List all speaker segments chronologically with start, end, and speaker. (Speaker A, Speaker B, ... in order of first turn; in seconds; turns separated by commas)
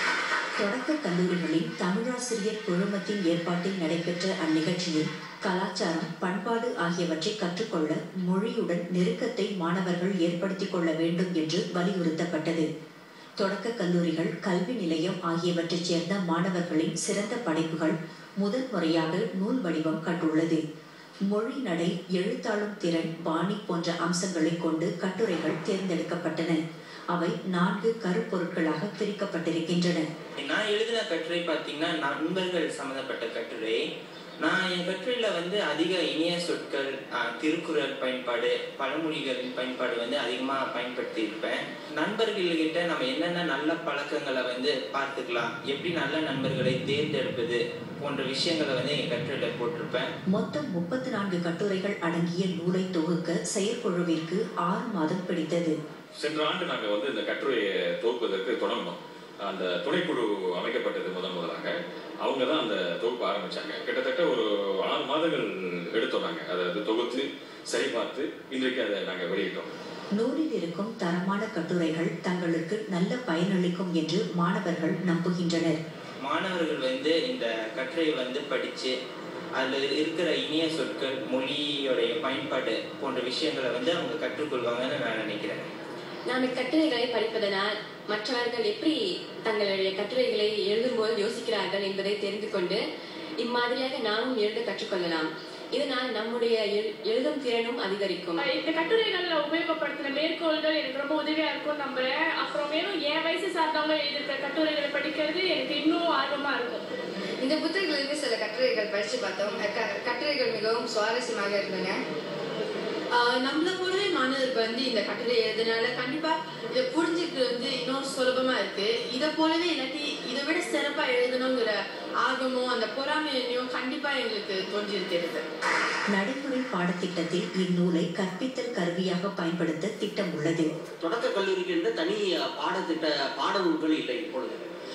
Speaker A: 0.6-12.7, Speaker A: 13.4-20.6, Speaker A: 21.3-26.6, Speaker A: 27.1-30.1, Speaker B: 30.4-33.8, Speaker B: 34.4-50.1, Speaker A: 50.3-55.7, Speaker C: 56.1-69.7, Speaker A: 70.2-75.8, Speaker B: 76.2-78.9, Speaker B: 79.6-85.7, Speaker D: 86.3-92.8, Speaker D: 93.4-98.4, Speaker E: 98.4-106.8, Speaker F: 107.4-112.0, Speaker G: 113.1-125.4, Speaker A: 126.1-130.7, Speaker H: 131.0-134.6